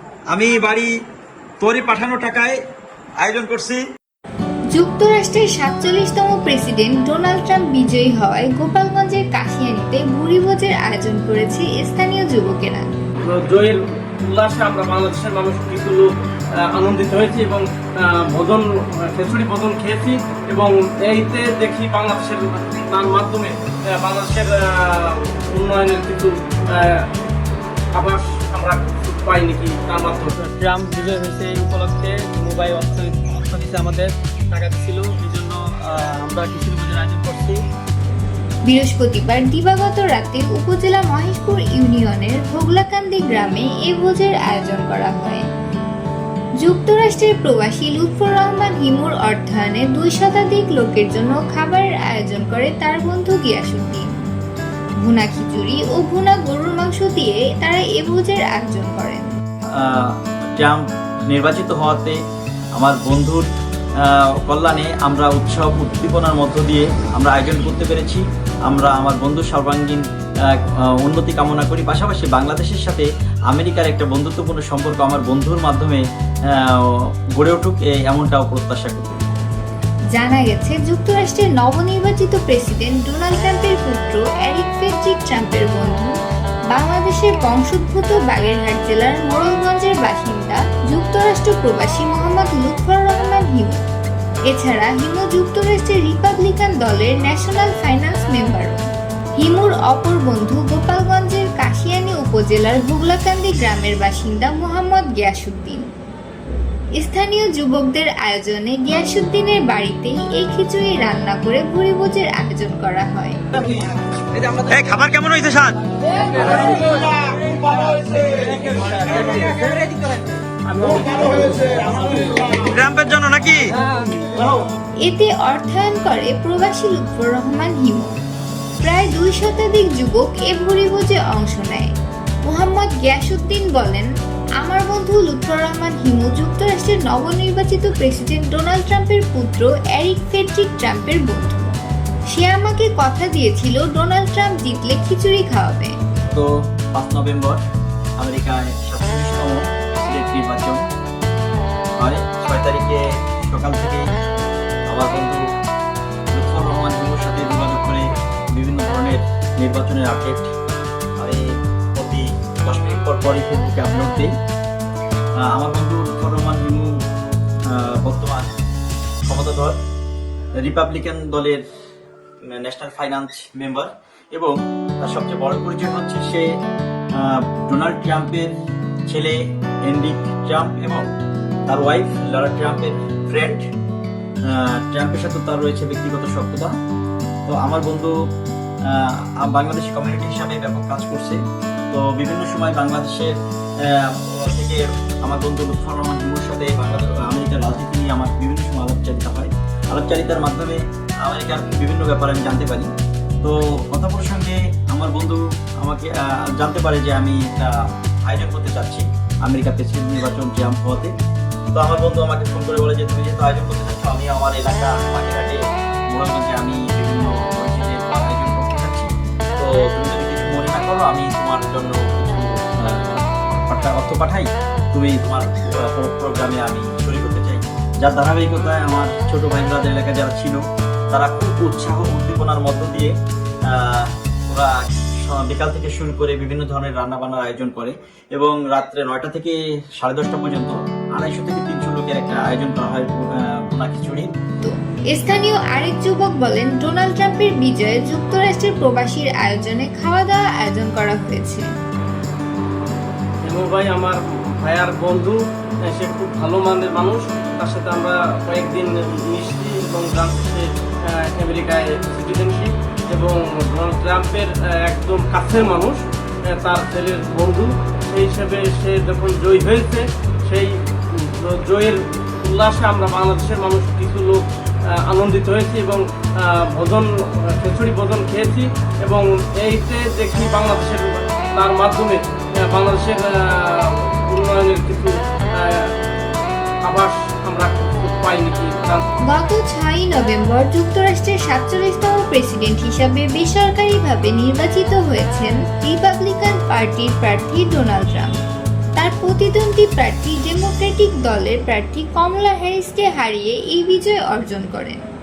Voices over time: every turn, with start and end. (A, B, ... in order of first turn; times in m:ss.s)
0:00.3-0:00.9 A
0:01.6-0:02.6 A
0:03.2-0:03.8 A
0:04.7-0:12.9 B
0:13.3-0:16.1 C
0:16.7-0:27.1 C
0:27.9-0:30.3 C
0:30.3-0:37.6 D
0:38.7-0:45.5 B
0:46.6-0:54.1 B
0:55.0-0:59.3 B
0:59.8-1:02.2 E
1:02.8-1:03.5 E
1:04.0-1:19.2 E
1:20.1-1:26.1 B
1:26.7-1:33.8 B
1:34.5-1:38.8 B
1:39.4-1:45.9 B
1:47.0-1:53.4 B
1:54.5-1:55.8 A
1:56.3-1:59.7 A
1:58.6-2:00.1 D
2:00.8-2:02.4 D
2:02.4-2:03.8 A
2:05.0-2:08.2 B
2:08.8-2:11.9 B
2:12.5-2:14.1 B
2:14.6-2:21.8 B
2:22.3-2:26.0 B
2:26.3-2:27.6 E
2:28.2-2:30.8 E
2:32.0-2:34.1 E
2:34.9-2:35.4 E
2:36.3-2:40.5 E
2:41.2-2:44.3 E
2:45.4-2:47.0 E
2:47.7-2:48.5 E
2:49.3-2:49.8 E
2:50.6-2:51.6 E
2:52.4-2:56.5 E
2:57.2-2:58.5 E
2:59.1-3:01.1 E
3:01.7-3:03.6 E
3:04.5-3:06.7 E
3:07.5-3:08.1 E
3:08.8-3:11.4 E
3:11.9-3:22.9 E
3:23.4-3:31.1 E
3:31.7-3:53.1 E
3:53.7-4:04.3 E
4:04.6-4:11.7 B
4:13.5-4:34.5 C
4:35.0-4:45.9 C
4:46.9-4:49.0 C
4:49.3-4:58.4 B
4:59.0-5:05.1 B